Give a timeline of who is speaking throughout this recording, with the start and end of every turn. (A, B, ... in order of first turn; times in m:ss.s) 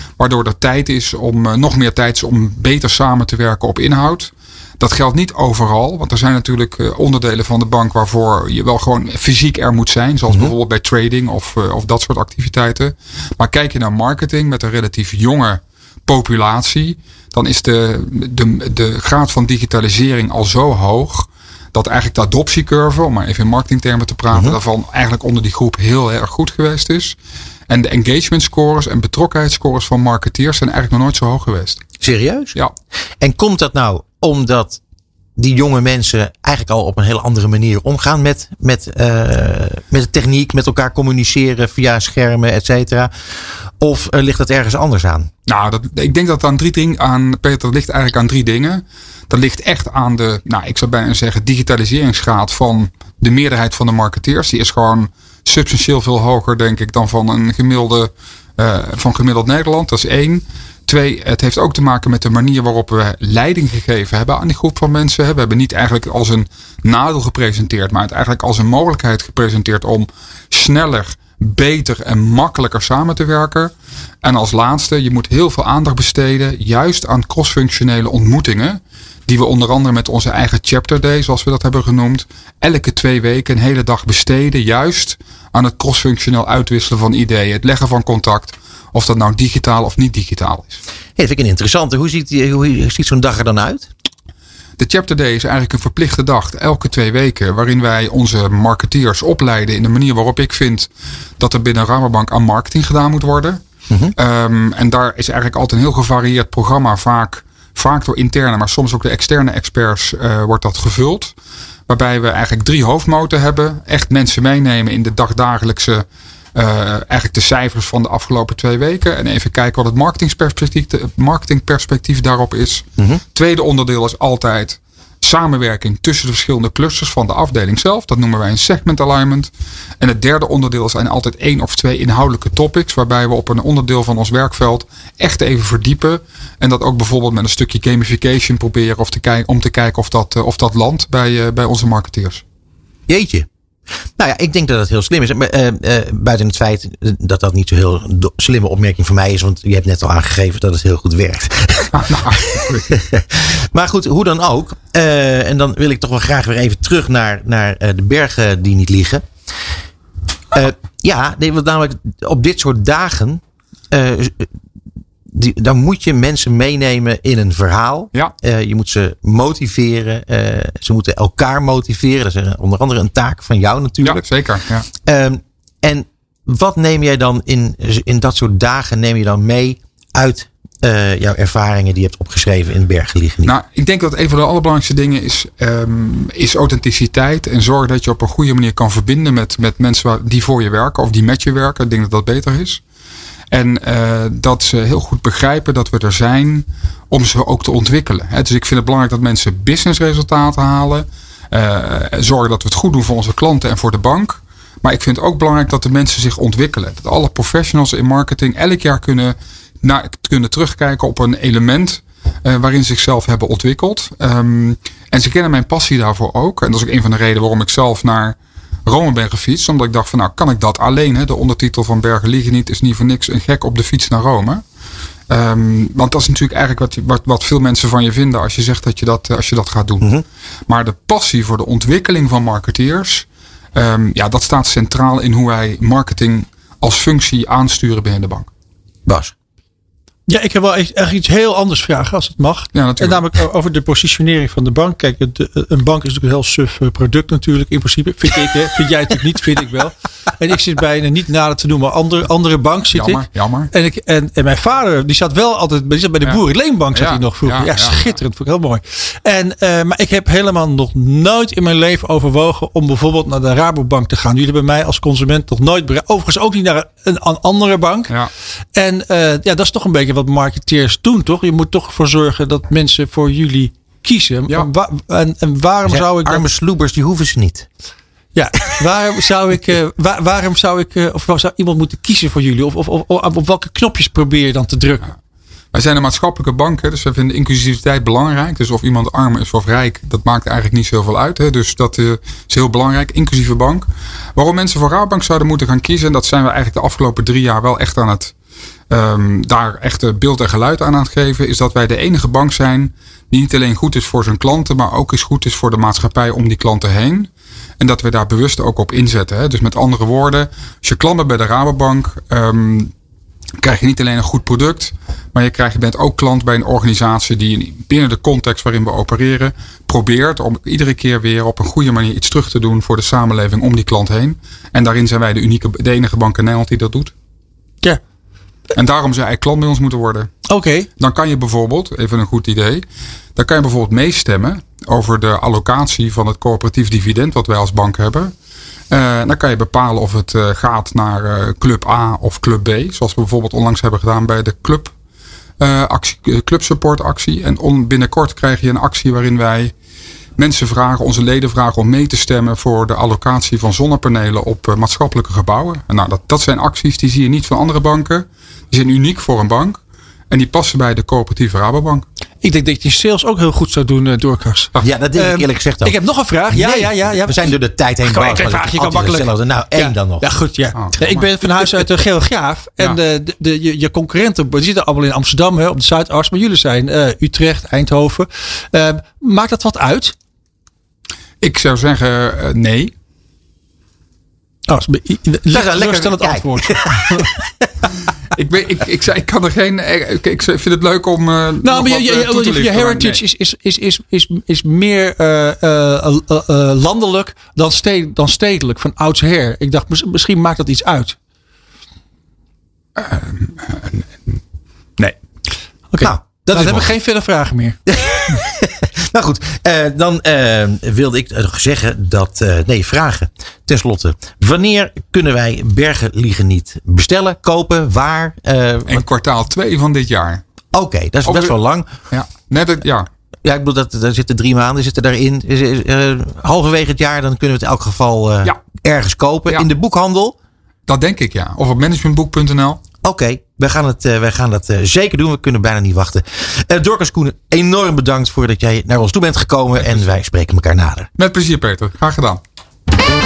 0:00.2-0:27.2 A
0:24.3-0:24.6 B
0:27.7-0:31.8 A
0:32.0-0:32.5 B
0:33.2-0:34.8 B
0:35.4-0:43.1 B
0:43.8-0:45.3 B
0:45.5-1:30.8 A
1:31.2-1:33.9 B
1:34.8-1:43.6 A
1:43.9-1:44.1 B
1:44.2-1:51.3 A
1:51.9-2:22.4 A
2:23.1-2:23.5 B
2:24.2-2:31.9 B
2:31.9-2:32.9 A
2:32.9-2:39.2 B
2:40.5-2:44.5 B
2:45.3-2:54.2 B
2:54.0-2:54.8 A
2:55.0-3:03.5 B
3:03.4-3:12.8 A
3:13.5-3:44.6 A
3:45.3-3:50.1 A
3:50.7-3:58.5 A
3:59.1-3:59.3 B
4:00.3-4:28.1 C
4:02.7-4:03.3 A
4:12.9-4:13.7 A
4:16.2-4:18.2 A
4:28.7-4:36.5 C
4:35.8-4:37.7 B
4:38.3-4:45.1 C
4:45.7-4:58.3 A
4:58.9-5:07.3 A
5:07.8-5:12.9 A
5:13.6-5:27.1 A
5:28.7-5:30.3 A
5:30.5-5:30.9 C
5:31.0-5:32.8 A
5:33.4-5:38.3 A
5:38.9-5:44.9 A
5:45.6-5:49.7 A
5:50.4-5:59.8 A
6:00.3-6:02.0 A
6:02.4-6:20.1 C
6:04.8-6:10.3 B
6:10.7-6:11.3 A
6:21.4-6:22.9 A
6:24.7-6:27.3 C
6:25.5-6:27.3 B
6:28.3-6:33.2 A
6:31.6-6:41.2 C
6:43.0-6:44.4 A
6:45.9-6:47.8 C
6:46.0-6:46.9 B
6:47.9-6:59.0 B
6:58.9-7:00.4 A
7:00.7-7:01.9 B
7:01.2-7:01.5 A
7:02.1-7:03.1 A
7:03.4-7:10.4 B
7:10.9-7:12.8 A
7:13.0-7:21.1 B
7:21.2-7:22.4 A